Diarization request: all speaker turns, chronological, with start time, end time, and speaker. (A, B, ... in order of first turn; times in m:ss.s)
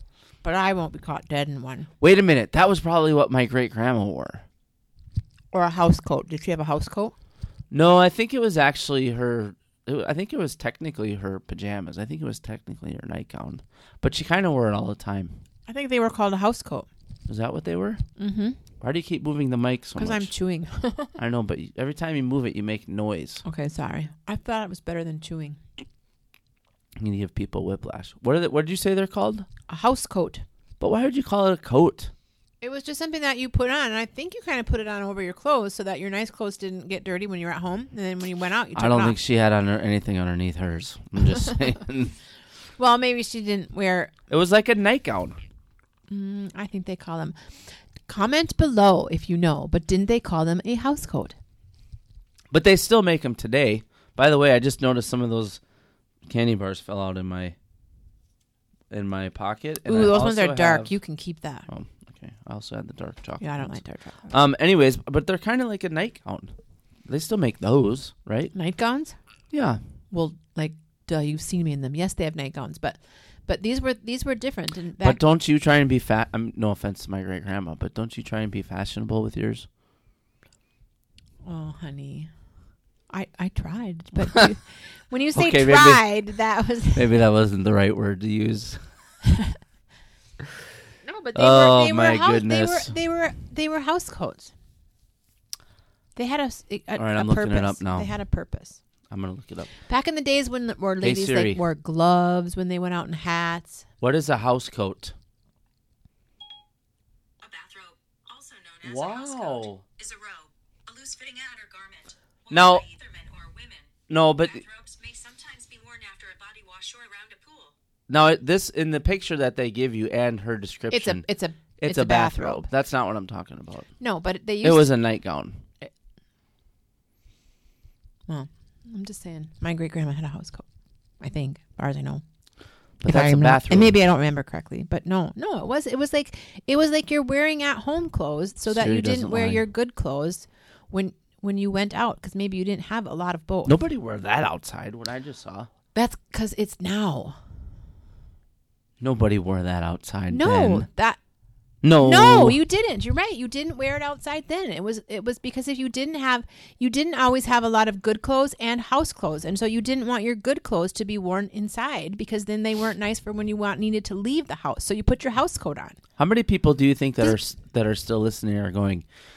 0:00.4-0:01.9 A
0:02.0-0:04.4 B
0:05.5-0:07.1 A
0:07.7-0:15.4 B
0:15.7-0:16.9 A
0:17.3-0:18.0 B
0:18.2-0:18.6 A
0:18.8-0:20.3 B
0:20.0-0:21.1 A
0:21.2-0:23.4 B
0:23.4-0:25.6 A
0:27.0-0:29.5 B
0:29.7-0:30.4 A
0:30.8-0:32.1 B
0:32.6-0:39.2 A
0:38.7-0:42.1 B
0:42.8-0:44.1 A
0:44.3-0:45.4 B
0:46.1-0:47.4 A
0:48.1-0:51.4 A
0:52.5-0:55.6 B
0:56.3-0:57.6 B
0:58.9-1:00.9 B
0:59.9-1:01.6 A
1:01.7-1:03.8 B
1:03.4-1:04.3 A
1:04.3-1:06.5 B
1:07.1-1:08.5 B
1:08.5-1:09.2 A
1:09.5-1:09.8 B
1:10.1-1:15.2 A
1:15.0-1:19.7 B
1:21.4-1:22.3 A
1:23.1-1:27.1 A
1:25.3-1:26.0 B
1:26.9-1:28.8 B
1:29.3-1:29.5 A
1:31.0-1:34.5 A
1:31.3-1:32.9 B
1:36.2-1:38.8 A
1:36.9-1:38.1 B
1:39.1-1:39.7 B
1:39.9-1:43.8 A
1:41.0-1:41.6 B
1:44.0-1:45.1 B
1:47.4-1:57.7 C
1:48.8-1:49.8 B
1:52.5-1:52.8 B
1:54.1-1:54.6 B
1:58.1-2:01.2 B
2:00.9-2:02.7 A
2:01.8-2:03.9 B
2:04.0-2:04.9 A
2:04.6-2:05.6 B
2:08.3-2:10.6 A
2:11.2-2:12.2 A
2:13.0-2:14.0 B
2:13.0-2:23.8 A
2:18.7-2:19.6 B
2:23.6-2:25.7 B
2:25.9-2:27.4 A
2:29.0-2:30.9 B
2:30.3-2:31.2 A
2:31.8-2:32.6 B
2:32.0-2:46.0 A
2:46.2-2:49.0 B